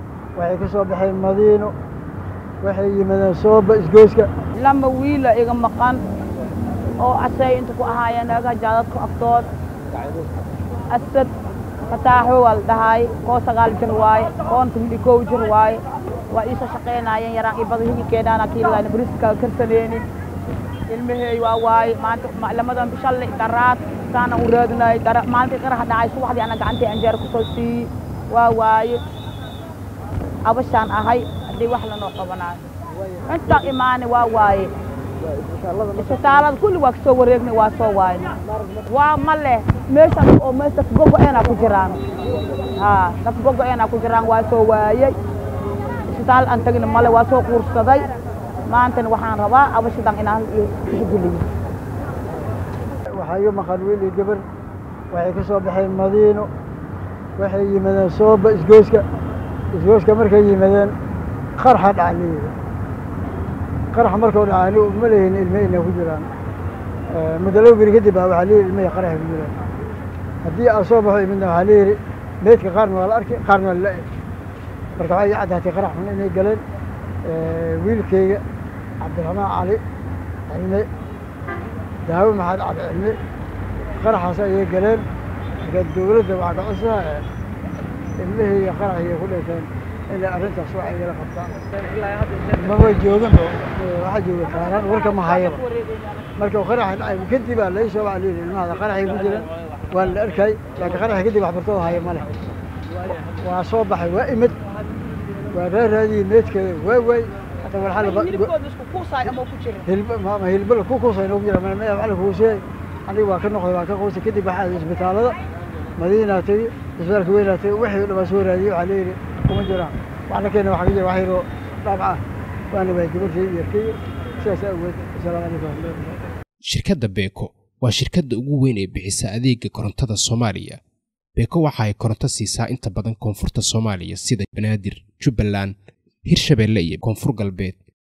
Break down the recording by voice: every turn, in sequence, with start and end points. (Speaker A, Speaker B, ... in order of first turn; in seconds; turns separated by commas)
Speaker A: 0.4-1.7, Speaker A: 2.6-4.3, Speaker B: 4.5-6.0, Speaker B: 7.0-9.5, Speaker B: 10.9-11.3, Speaker B: 11.9-20.0, Speaker B: 20.9-29.0, Speaker B: 30.4-32.6, Speaker B: 33.2-34.7, Speaker B: 35.8-42.0, Speaker B: 42.8-45.2, Speaker B: 46.1-48.1, Speaker B: 48.7-51.5, Speaker A: 53.1-54.4, Speaker A: 55.1-56.5, Speaker A: 57.4-59.0, Speaker A: 59.7-60.9, Speaker A: 61.6-62.5, Speaker A: 63.9-66.3, Speaker A: 67.1-69.5, Speaker A: 70.4-74.0, Speaker A: 75.0-76.6, Speaker A: 77.2-78.4, Speaker A: 79.0-79.8, Speaker A: 80.5-80.9, Speaker A: 82.0-83.2, Speaker A: 84.0-85.0, Speaker A: 85.6-87.2, Speaker A: 88.2-91.5, Speaker A: 92.5-95.6, Speaker A: 96.4-102.3, Speaker A: 103.3-104.6, Speaker A: 105.5-108.5, Speaker B: 108.0-109.9, Speaker A: 109.9-115.4, Speaker A: 116.0-122.2, Speaker A: 122.7-126.2, Speaker C: 126.7-130.8, Speaker C: 131.4-135.7, Speaker C: 136.3-137.8